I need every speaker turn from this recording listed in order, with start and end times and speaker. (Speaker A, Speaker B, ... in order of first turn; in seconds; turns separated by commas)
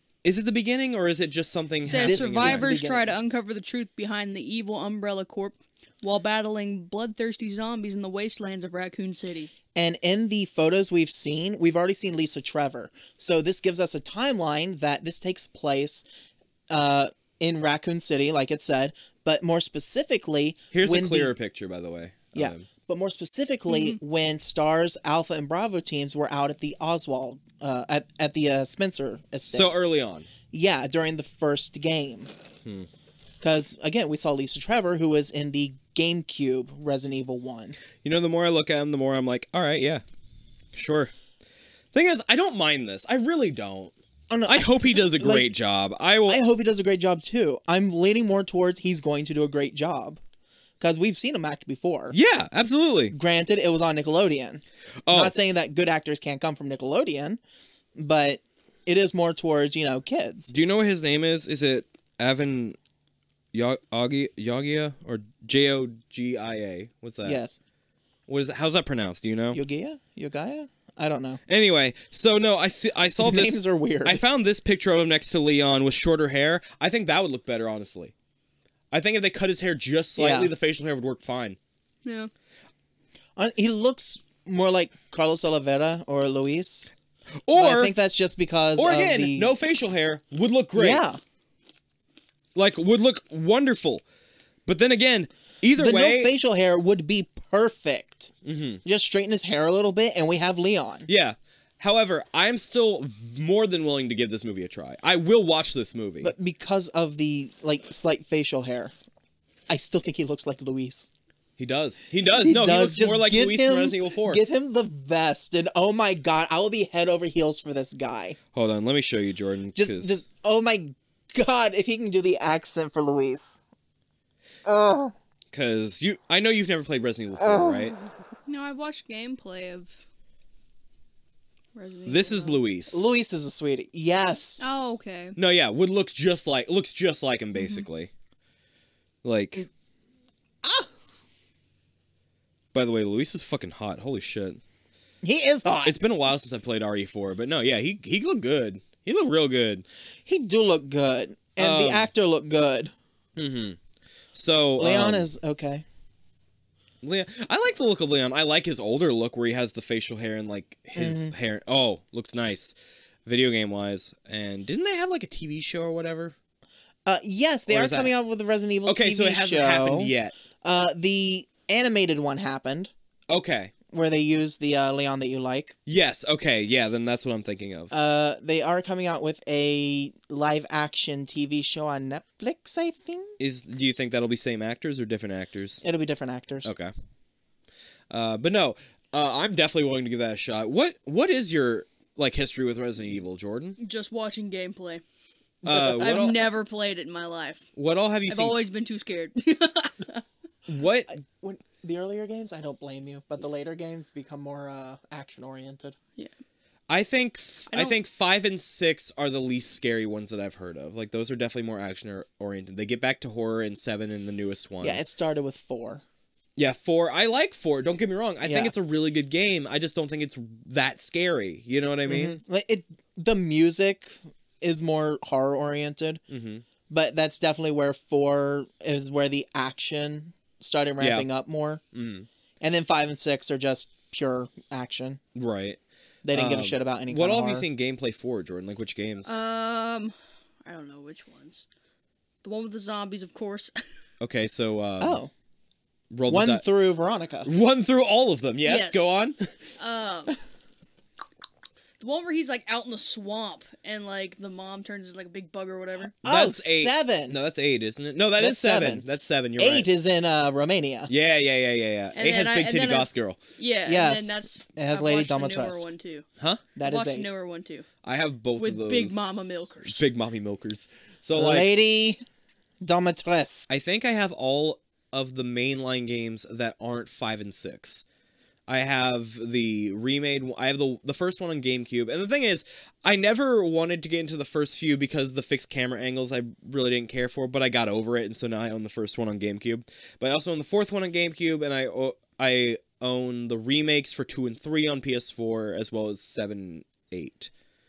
Speaker A: 0.2-2.6, Speaker B: 1.8-9.5, Speaker C: 1.9-3.1, Speaker C: 9.7-21.3, Speaker A: 20.7-22.6, Speaker C: 22.3-29.7, Speaker B: 23.7-24.0, Speaker A: 29.5-30.3, Speaker C: 30.5-32.3, Speaker C: 33.4-37.8, Speaker A: 38.0-40.0, Speaker A: 40.7-41.1, Speaker A: 41.9-43.9, Speaker C: 44.3-45.5, Speaker A: 44.5-46.4, Speaker C: 46.3-50.2, Speaker C: 50.8-52.1, Speaker A: 52.1-53.1, Speaker C: 53.1-57.4, Speaker A: 55.0-55.3, Speaker C: 58.0-60.5, Speaker A: 60.5-62.8, Speaker A: 63.5-67.4, Speaker C: 67.2-67.6, Speaker A: 68.3-69.6, Speaker C: 69.5-71.4, Speaker A: 71.5-78.1, Speaker C: 73.2-74.2, Speaker A: 78.9-81.6, Speaker C: 80.2-80.5, Speaker B: 82.0-82.3, Speaker C: 83.4-86.9, Speaker A: 87.5-87.9, Speaker C: 87.5-89.5, Speaker A: 88.8-91.0, Speaker C: 90.7-91.2, Speaker A: 92.5-94.0, Speaker A: 94.7-96.3, Speaker C: 95.8-98.3, Speaker A: 98.4-98.8, Speaker C: 98.8-101.1, Speaker A: 101.1-106.3, Speaker C: 106.2-108.9, Speaker C: 109.7-111.1, Speaker A: 111.6-114.4, Speaker C: 112.4-118.4, Speaker A: 118.5-120.1, Speaker C: 119.7-123.6, Speaker C: 124.6-125.1, Speaker A: 125.5-128.0, Speaker C: 127.4-128.0, Speaker B: 128.5-130.0, Speaker B: 131.7-132.6, Speaker A: 132.1-133.1, Speaker C: 132.9-134.7, Speaker B: 134.6-135.4, Speaker A: 135.3-138.1, Speaker B: 137.5-137.8, Speaker A: 139.2-139.7, Speaker C: 140.6-140.9, Speaker A: 142.7-144.6, Speaker C: 145.2-145.9, Speaker A: 145.8-149.8, Speaker C: 150.2-152.9, Speaker A: 151.6-152.1, Speaker A: 153.4-153.8, Speaker A: 154.3-155.3, Speaker C: 154.8-155.8, Speaker A: 157.0-162.7, Speaker C: 160.9-161.3, Speaker A: 163.2-166.3, Speaker C: 167.1-172.9, Speaker A: 167.7-168.1, Speaker A: 168.8-170.3, Speaker A: 173.3-173.7, Speaker C: 173.9-175.7, Speaker A: 175.8-177.9, Speaker C: 177.9-183.3, Speaker A: 183.4-185.8, Speaker C: 185.8-186.7, Speaker A: 186.6-186.9, Speaker A: 188.1-193.8, Speaker B: 193.8-195.0, Speaker A: 195.6-196.4, Speaker C: 195.7-196.3, Speaker B: 195.7-197.7, Speaker A: 197.8-198.6, Speaker B: 198.3-200.2, Speaker A: 200.7-201.1, Speaker C: 201.1-206.0, Speaker A: 206.9-215.0, Speaker B: 207.7-208.0, Speaker C: 214.8-216.0, Speaker A: 216.6-222.4, Speaker C: 218.4-218.7, Speaker C: 222.1-226.2, Speaker A: 226.3-226.6, Speaker C: 226.9-231.8, Speaker A: 231.0-231.3, Speaker A: 231.9-232.3, Speaker C: 232.6-235.2, Speaker A: 235.3-235.8, Speaker C: 236.2-237.7, Speaker A: 236.3-239.3, Speaker B: 239.2-240.1, Speaker B: 240.6-241.7, Speaker B: 242.4-243.8, Speaker A: 244.2-245.2, Speaker C: 245.0-245.3, Speaker A: 246.1-246.6, Speaker C: 246.3-247.5, Speaker A: 247.4-249.5, Speaker B: 248.6-249.1, Speaker B: 249.8-250.3, Speaker B: 252.0-256.1, Speaker C: 256.2-257.4, Speaker A: 256.2-259.9, Speaker C: 258.4-259.1, Speaker C: 259.6-261.1, Speaker A: 261.1-263.4, Speaker B: 262.1-266.2, Speaker C: 263.9-265.9, Speaker C: 266.8-267.3, Speaker B: 266.8-267.9, Speaker A: 268.0-269.3, Speaker B: 268.6-270.0, Speaker A: 269.8-271.7, Speaker C: 271.3-272.2, Speaker C: 272.8-273.7, Speaker A: 273.7-278.0, Speaker A: 278.7-297.5